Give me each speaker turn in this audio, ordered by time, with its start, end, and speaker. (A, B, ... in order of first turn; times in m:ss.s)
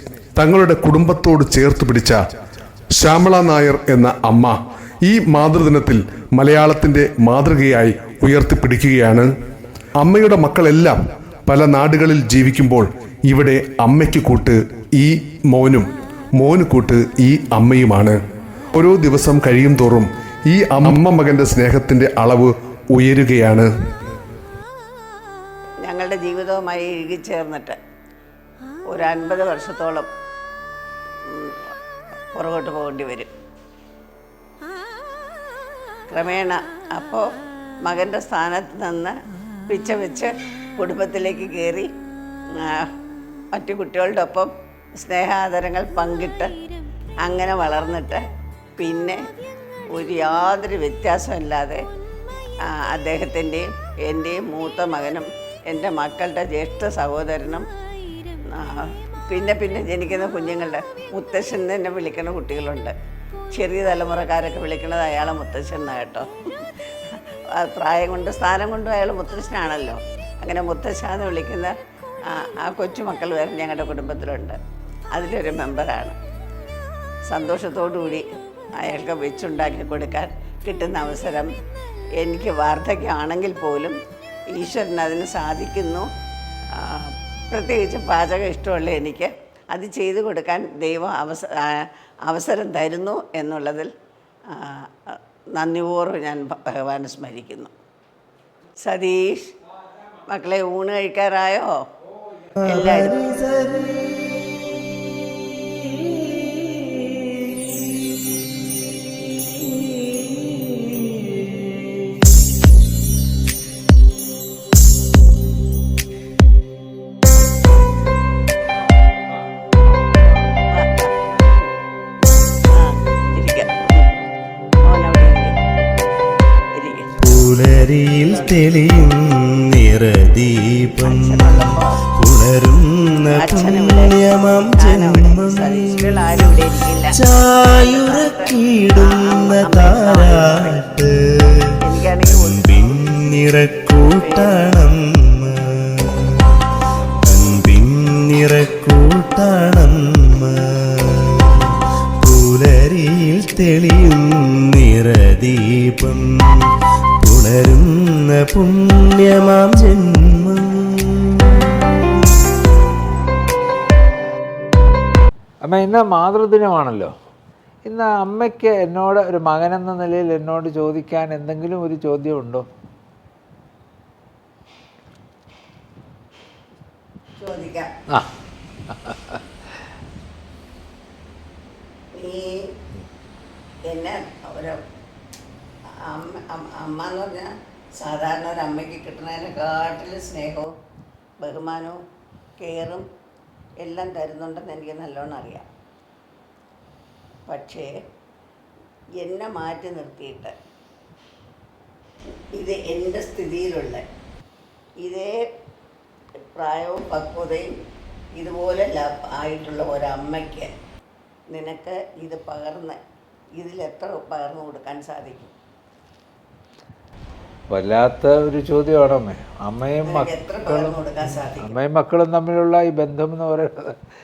0:00.4-0:02.2 A
0:02.9-0:09.3 A
0:10.0-0:18.2 A
0:18.7-0:23.7 A
0:25.8-0:27.8 B
0:28.9-0:30.1 B
0:31.2-0:31.6 B
0:32.3-0:33.3 B
0:36.1-0:37.3 B
0:37.8-0:39.2 B
0:39.7-0:41.9 B
0:42.5-0:42.9 B
0:43.5-0:46.5 B
0:47.2-0:48.2 B
0:48.8-0:49.2 B
0:49.9-0:51.8 B
0:52.6-0:57.7 B
0:58.5-1:02.9 B
1:03.5-1:11.7 B
1:12.3-1:14.6 B
1:15.1-1:16.2 B
1:17.3-1:18.3 B
1:18.8-1:21.5 B
1:22.2-1:24.0 B
1:24.5-1:26.1 B
1:26.8-1:33.9 B
1:34.5-1:37.7 B
1:38.8-1:39.5 B
1:40.3-1:41.7 B
1:42.6-1:44.3 C
1:42.6-1:43.3 B
1:46.3-1:47.0 C
1:50.4-1:50.9 C
2:00.7-2:01.7 B
2:02.6-2:04.1 B
2:04.8-2:05.6 B
2:06.8-2:07.2 B
2:07.2-2:26.4 C
2:11.0-2:12.0 B
2:13.3-2:20.9 B
2:21.8-2:23.3 B
2:24.0-2:24.6 B
2:27.2-2:36.7 C
2:37.2-2:41.6 C
2:45.6-2:47.1 D
2:47.8-2:52.7 D
2:57.4-2:57.9 B
2:58.9-2:59.8 D
3:02.1-3:02.7 B
3:03.9-3:04.8 B
3:06.0-3:10.7 B
3:11.4-3:12.0 B
3:12.6-3:13.1 B
3:13.8-3:15.7 B
3:17.5-3:17.9 B
3:19.2-3:20.5 B
3:22.5-3:24.0 B
3:25.0-3:25.4 B
3:26.5-3:27.8 B
3:28.4-3:30.7 B
3:31.5-3:33.0 B
3:33.6-3:35.5 B
3:37.7-3:41.0 D
3:40.0-3:41.7 B
3:41.6-3:44.0 D